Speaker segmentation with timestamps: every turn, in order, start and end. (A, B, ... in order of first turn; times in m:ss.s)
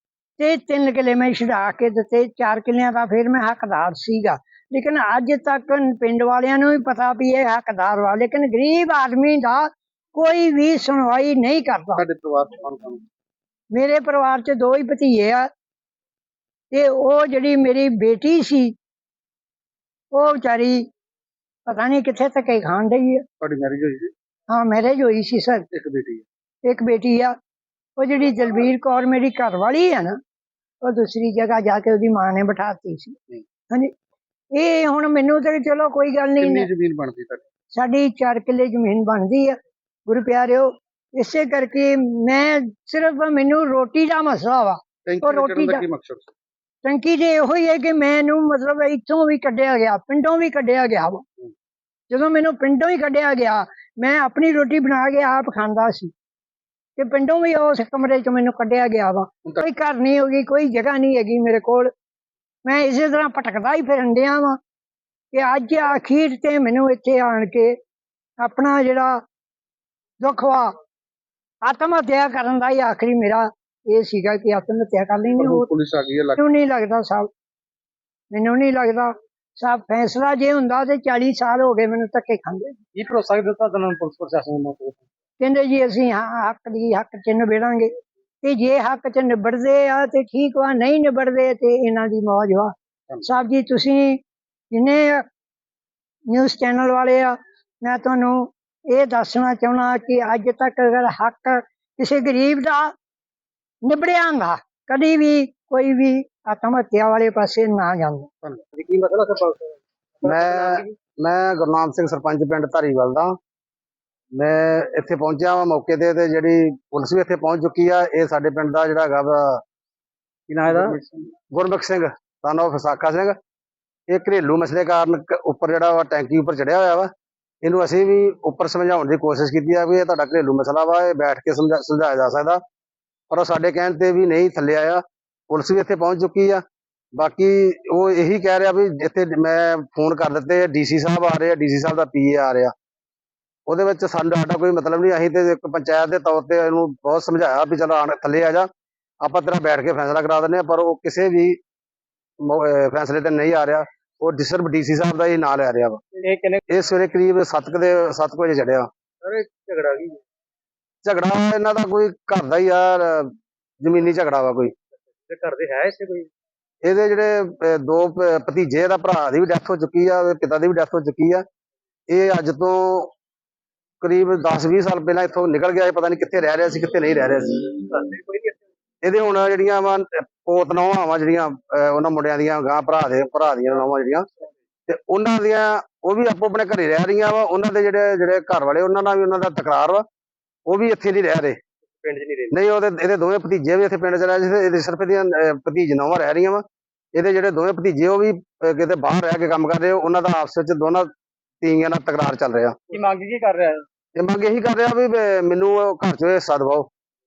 0:00.4-0:12.0 A
0:12.0-0:13.0 B
0:13.7-0:15.5 A
0:16.7-0:18.7 A
0:20.1-0:20.8 A
0:21.6-0:23.2 A
0:23.4-0:24.1 B
0:24.5-0:25.6 A
0:25.7-0:26.2 B
0:26.6-0:27.3 A
0:28.0-0:30.2 A
0:30.8-0:33.2 A
0:34.5-0:36.7 A
0:36.4-0:37.4 B
0:37.7-0:45.8 A
0:45.0-0:46.3 B
0:46.8-0:51.2 A
0:52.1-0:56.1 A
0:57.0-1:01.9 A
1:02.6-1:04.6 A
1:05.3-1:07.7 A
1:08.4-1:09.2 A
1:10.2-1:10.7 A
1:11.6-1:15.7 A
1:15.4-1:16.4 B
1:16.4-1:17.3 A
1:18.3-1:22.8 A
1:22.9-1:25.0 B
1:25.4-1:34.2 A
1:34.7-1:35.2 A
1:36.3-1:42.9 A
1:43.8-1:48.3 A
1:48.4-1:50.8 B
1:50.2-1:53.4 C
1:54.3-1:59.6 C
2:00.5-2:01.0 C
2:00.6-2:01.3 B
2:01.5-2:03.4 C
2:04.1-2:07.1 C
2:07.6-2:12.6 C
2:13.3-2:16.6 C
2:17.2-2:22.7 C
2:23.7-2:28.7 C
2:29.2-2:31.6 C
2:32.4-2:36.0 C
2:36.2-2:36.6 B
2:36.7-2:38.9 C
2:39.2-2:40.2 B
2:41.0-2:44.7 C
2:45.3-2:46.3 B
2:46.8-2:51.4 C
2:52.1-2:53.1 C
2:54.0-2:58.1 C
2:59.0-3:04.3 C
3:04.9-3:10.0 C
3:10.7-3:11.6 C
3:12.0-3:12.5 B
3:12.5-3:22.8 C
3:22.9-3:23.8 B
3:24.2-3:26.9 C